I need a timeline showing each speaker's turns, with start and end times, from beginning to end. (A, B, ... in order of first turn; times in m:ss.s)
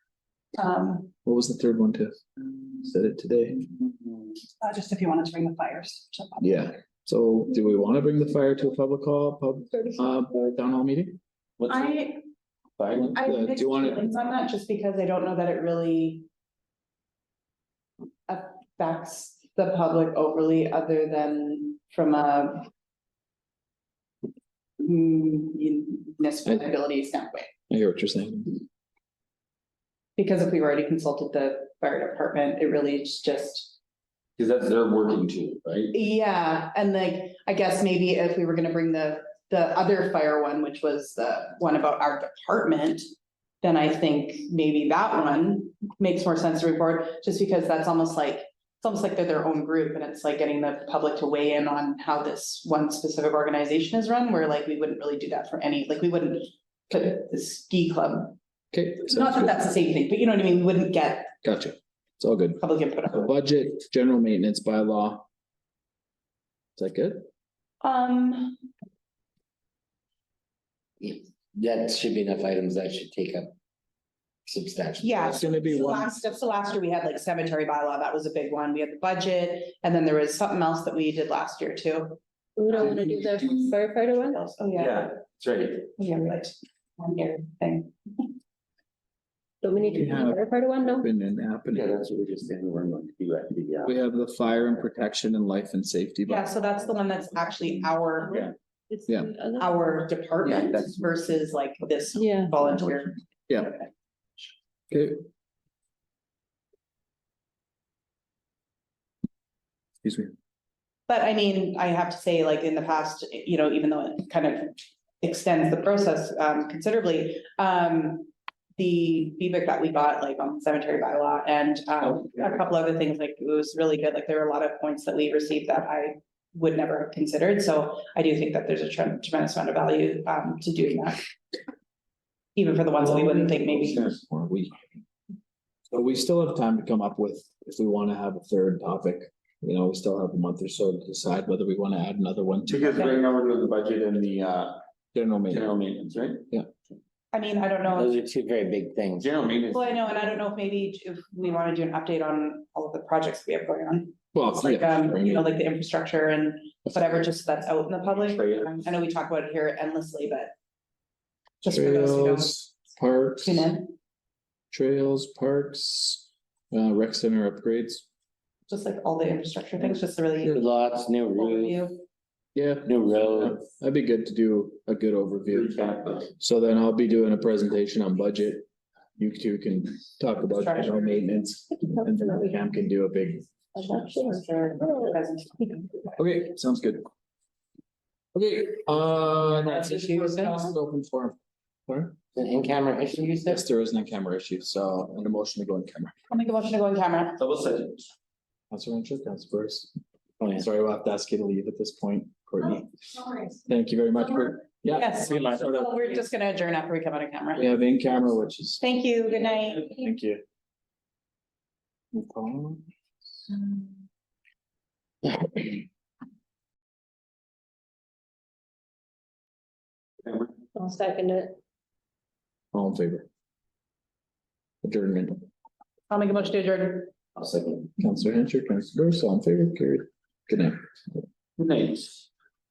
0:00.5-0:01.1 A
0:01.2-0:02.1 B
0:02.8-0:03.6 B
0:03.8-0:04.1 C
0:04.6-0:06.5 A
0:06.4-0:11.2 B
0:11.6-0:12.0 C
0:11.7-0:12.2 A
0:12.8-0:13.2 C
0:12.9-0:14.0 B
0:13.1-0:16.3 A
0:18.3-0:22.7 A
0:24.8-0:27.5 A
0:27.7-0:28.6 B
0:30.2-0:33.7 A
0:34.4-0:35.9 C
0:35.9-0:43.0 A
0:43.6-0:58.4 A
0:58.7-0:59.7 B
0:59.0-1:01.3 A
1:01.4-1:05.2 B
1:02.6-1:03.3 A
1:06.8-1:07.2 B
1:07.8-1:08.6 A
1:11.0-1:13.5 D
1:14.5-1:15.4 D
1:15.0-1:22.2 A
1:15.2-1:16.2 B
1:22.6-1:24.4 E
1:24.3-1:25.2 A
1:24.8-1:25.9 C
1:26.0-1:27.9 A
1:29.6-1:31.1 E
1:30.0-1:30.4 B
1:31.0-1:32.0 B
1:31.7-1:33.9 C
1:33.8-1:36.5 B
1:36.2-1:38.4 A
1:38.2-1:39.8 E
1:39.6-1:43.9 A
1:40.4-1:41.1 C
1:42.2-1:42.5 E
1:43.5-1:43.7 B
1:44.9-1:45.2 B
1:50.0-1:50.3 B
1:51.1-2:11.2 A
2:12.6-2:14.1 A
2:13.0-2:14.2 C
2:14.2-2:14.8 B
2:15.9-2:23.1 B
2:22.7-2:24.8 C
2:22.9-2:23.2 A
2:25.1-2:25.7 B
2:25.5-2:26.5 C
2:27.3-2:28.1 A
2:27.9-2:29.4 D
2:29.2-2:29.9 C
2:29.7-2:40.5 A
2:34.3-2:35.5 B
2:38.1-2:38.7 C
2:41.6-2:42.6 A
2:41.7-2:43.7 B
2:43.4-2:44.0 A
2:44.7-2:48.0 B
2:48.7-2:50.6 A
2:50.4-2:51.8 D
2:51.3-2:52.0 A
2:52.5-2:55.7 B
2:52.8-2:53.6 D
2:55.5-2:56.3 C
2:56.4-3:03.4 B
3:00.4-3:01.4 A
3:01.9-3:02.5 E
3:03.7-3:05.8 E
3:03.8-3:06.2 A
3:06.2-3:07.1 B
3:08.3-3:11.4 B
3:11.9-3:12.2 B
3:12.3-3:13.6 D
3:13.4-3:16.2 B
3:16.3-3:17.4 A
3:17.4-3:18.1 C
3:18.7-3:19.9 B
3:20.4-3:20.7 D
3:20.5-3:22.9 B
3:23.6-3:25.9 B
3:24.9-3:27.6 A
3:25.2-3:25.7 C
3:27.6-3:28.8 B
3:28.8-3:29.9 A
3:29.8-3:30.4 B
3:32.1-3:32.8 B
3:40.7-3:41.6 E
3:42.7-3:43.3 B
3:44.8-3:45.4 B
3:46.1-3:47.2 A
3:47.4-3:47.9 C
3:48.0-3:50.8 B
3:51.6-3:52.2 C